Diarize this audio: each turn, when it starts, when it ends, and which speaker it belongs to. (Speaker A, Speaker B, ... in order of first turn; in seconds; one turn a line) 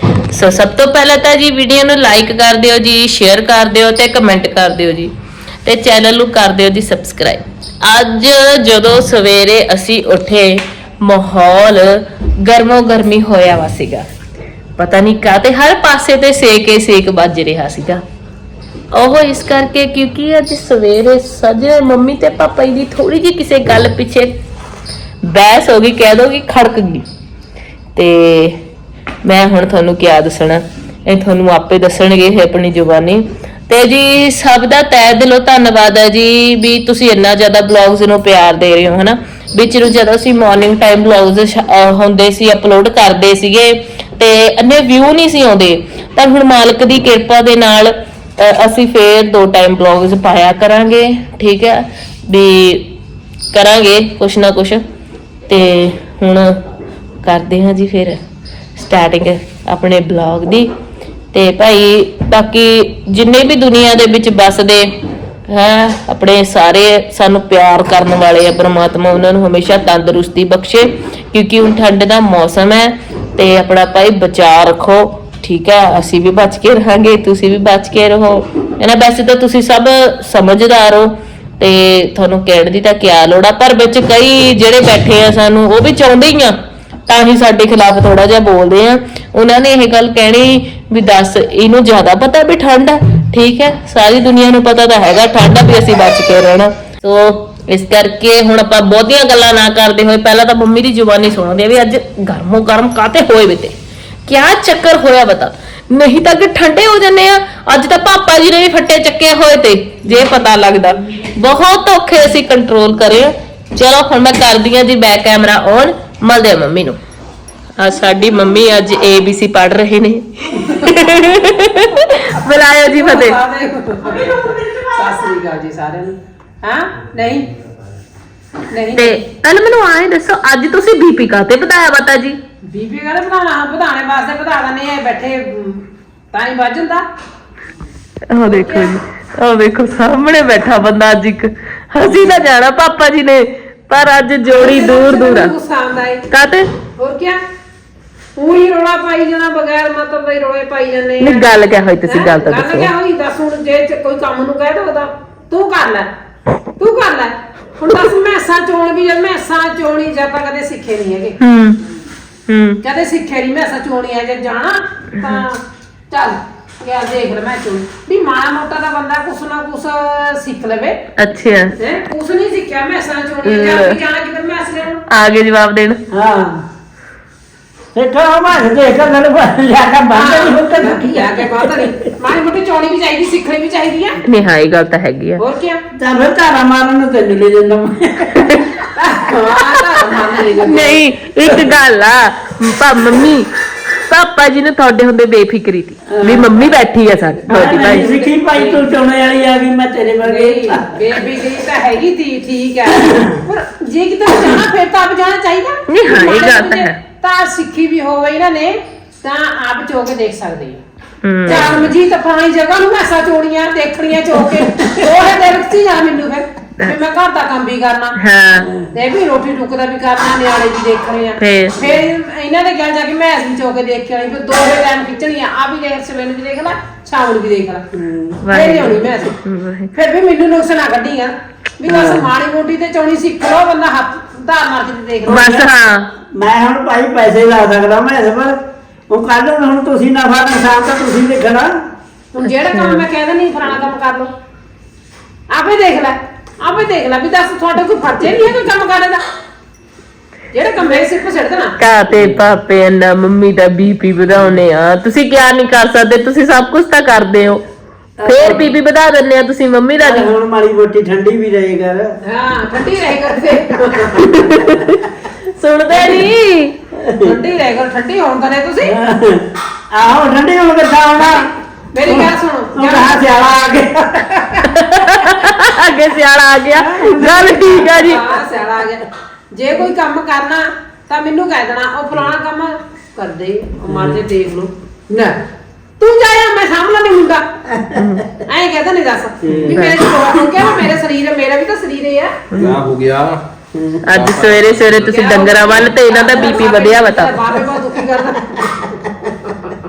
Speaker A: 0.3-5.1
Speaker A: 5.6-14.1
Speaker A: 14.8-18.0
Speaker A: 18.9-24.3
Speaker A: 25.3-27.1
Speaker A: 27.9-28.6
Speaker A: 29.2-52.9
Speaker A: 53.5-54.8
Speaker A: 55.5-56.5
Speaker A: 57.2-58.2
Speaker A: 58.8-60.7
Speaker A: 61.3-64.9
Speaker A: 65.5-86.6
Speaker A: 87.1-103.8
Speaker A: 104.3-117.0
Speaker A: 117.8-123.4
Speaker B: 120.6-121.5
Speaker B: 122.8-127.5
Speaker B: 128.7-129.2
Speaker A: 128.9-132.4
Speaker B: 132.7-137.1
Speaker A: 138.3-145.5
Speaker B: 138.4-139.0
Speaker B: 144.5-146.2
Speaker A: 146.3-146.7
Speaker B: 147.0-147.4
Speaker B: 148.4-151.5
Speaker A: 151.2-152.9
Speaker B: 152.0-156.1
Speaker B: 156.8-161.4
Speaker A: 161.4-161.8
Speaker A: 162.5-162.8
Speaker B: 162.8-171.0
Speaker A: 171.2-171.8
Speaker B: 171.8-175.0
Speaker A: 173.4-174.0
Speaker A: 175.1-176.0
Speaker C: 176.1-176.6
Speaker C: 177.9-182.0
Speaker B: 180.1-184.2
Speaker A: 184.2-185.4
Speaker B: 185.4-185.8
Speaker C: 186.0-188.6
Speaker B: 188.9-191.0
Speaker A: 190.6-193.5
Speaker A: 194.1-198.1
Speaker C: 196.1-196.5
Speaker B: 197.5-198.8
Speaker C: 197.5-201.1
Speaker B: 200.2-210.8
Speaker C: 202.9-203.4
Speaker A: 205.9-207.0
Speaker A: 211.2-211.8
Speaker B: 211.5-218.2
Speaker C: 211.5-211.8
Speaker C: 214.5-215.1
Speaker A: 218.2-218.7
Speaker C: 218.6-218.9
Speaker B: 218.9-227.8
Speaker A: 221.4-221.8
Speaker C: 227.9-228.4
Speaker A: 228.4-229.9
Speaker B: 228.5-229.3
Speaker B: 229.9-235.5
Speaker C: 231.9-232.3
Speaker C: 235.3-235.7
Speaker A: 235.3-236.1
Speaker C: 236.3-238.6
Speaker C: 239.1-241.7
Speaker B: 242.3-244.3
Speaker A: 242.4-243.0
Speaker B: 245.5-249.2
Speaker B: 250.5-251.8
Speaker A: 251.8-257.6
Speaker C: 258.2-258.7
Speaker A: 258.2-260.3
Speaker C: 260.0-262.1
Speaker B: 262.2-264.5
Speaker A: 264.2-265.0
Speaker A: 265.5-266.7
Speaker C: 266.9-267.4
Speaker B: 267.2-268.9
Speaker C: 268.8-271.5
Speaker B: 271.2-273.3
Speaker C: 272.0-274.7
Speaker A: 274.7-278.2
Speaker C: 276.7-278.2
Speaker B: 278.0-285.4
Speaker C: 283.9-284.2
Speaker B: 286.0-287.4
Speaker C: 287.7-288.0
Speaker A: 287.9-288.3
Speaker B: 288.5-292.4
Speaker C: 289.4-289.9
Speaker A: 289.7-290.0
Speaker A: 292.5-292.8
Speaker D: 292.6-293.4
Speaker C: 293.7-294.0
Speaker A: 294.1-297.4
Speaker D: 294.1-295.2
Speaker B: 295.1-299.7